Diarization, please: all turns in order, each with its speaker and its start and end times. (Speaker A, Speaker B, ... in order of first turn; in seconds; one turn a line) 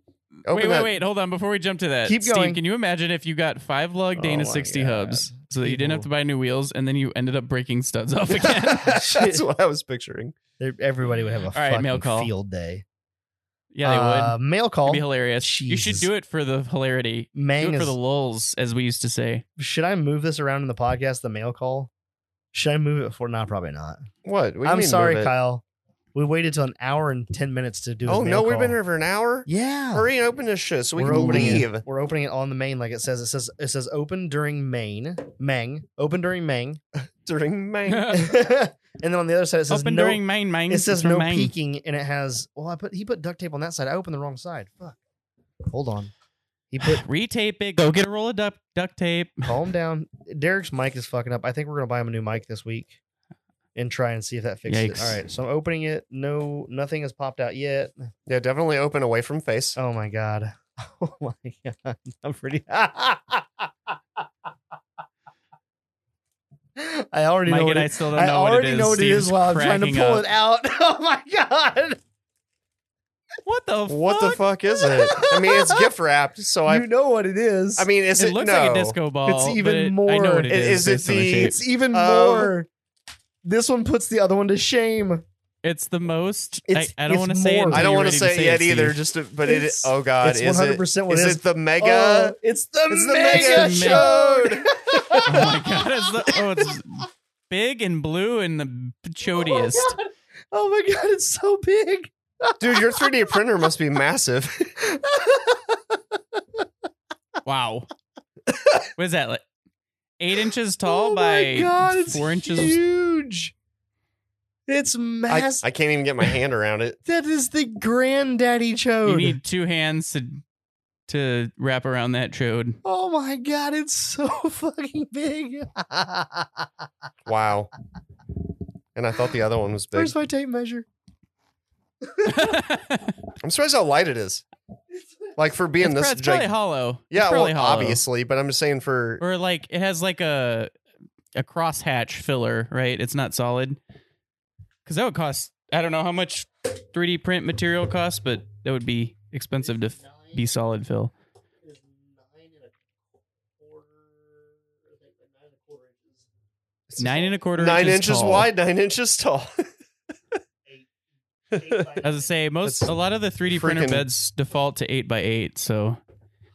Speaker A: 0.4-8.9
Speaker B: 0.5-0.9
Speaker C: 2.0-2.6
Speaker C: 4.2-6.1
Speaker B: 8.4-10.4
Speaker C: 8.8-9.4
Speaker C: 10.6-12.8
Speaker A: 11.5-12.3
Speaker A: 13.7-19.4
Speaker C: 13.8-16.1
Speaker C: 17.4-18.0
Speaker C: 19.6-21.9
Speaker C: 22.5-24.1
Speaker B: 24.2-25.3
Speaker C: 24.6-28.8
Speaker B: 28.1-31.8
Speaker C: 29.5-30.1
Speaker C: 31.0-36.8
Speaker A: 31.1-31.6
Speaker B: 37.0-38.2
Speaker A: 37.9-38.4
Speaker C: 38.1-45.0
Speaker A: 39.7-41.5
Speaker C: 45.7-46.1
Speaker C: 46.7-47.0
Speaker A: 46.8-49.5
Speaker C: 49.4-53.0
Speaker C: 53.8-58.1
Speaker A: 54.7-55.2
Speaker B: 58.3-59.8
Speaker C: 59.8-64.2
Speaker C: 66.8-72.0
Speaker A: 67.5-70.3
Speaker A: 73.5-74.4
Speaker B: 73.9-76.9
Speaker C: 74.7-75.9
Speaker C: 76.7-77.9
Speaker B: 77.8-79.0
Speaker A: 78.2-81.6
Speaker C: 79.2-82.7
Speaker B: 80.5-82.5
Speaker C: 83.5-85.2
Speaker A: 85.6-89.0
Speaker C: 86.7-87.9
Speaker B: 87.7-92.4
Speaker C: 89.4-96.8
Speaker B: 92.9-95.3
Speaker A: 93.2-94.1
Speaker A: 95.2-100.0
Speaker C: 99.3-103.4
Speaker B: 102.6-104.8
Speaker C: 104.8-106.6
Speaker A: 107.5-107.9
Speaker C: 108.5-108.8
Speaker A: 109.0-109.4
Speaker A: 110.2-112.8
Speaker C: 110.8-113.5
Speaker C: 114.7-115.7
Speaker B: 115.3-117.0
Speaker C: 117.1-119.4
Speaker A: 119.0-120.4
Speaker A: 121.1-122.8
Speaker C: 122.8-126.7
Speaker B: 127.3-127.7
Speaker B: 128.9-130.1
Speaker C: 129.9-130.9
Speaker C: 132.1-132.6
Speaker A: 132.2-133.2
Speaker B: 133.4-134.4
Speaker B: 135.4-136.5
Speaker A: 135.8-138.0
Speaker B: 137.1-139.2
Speaker A: 139.2-140.7
Speaker A: 141.4-143.8
Speaker A: 144.9-151.1
Speaker C: 149.6-150.4
Speaker C: 151.6-152.7
Speaker C: 153.6-156.3
Speaker B: 156.9-159.7
Speaker A: 157.0-158.5
Speaker C: 161.5-162.3
Speaker B: 161.5-162.0
Speaker A: 162.0-166.0
Speaker B: 163.5-164.1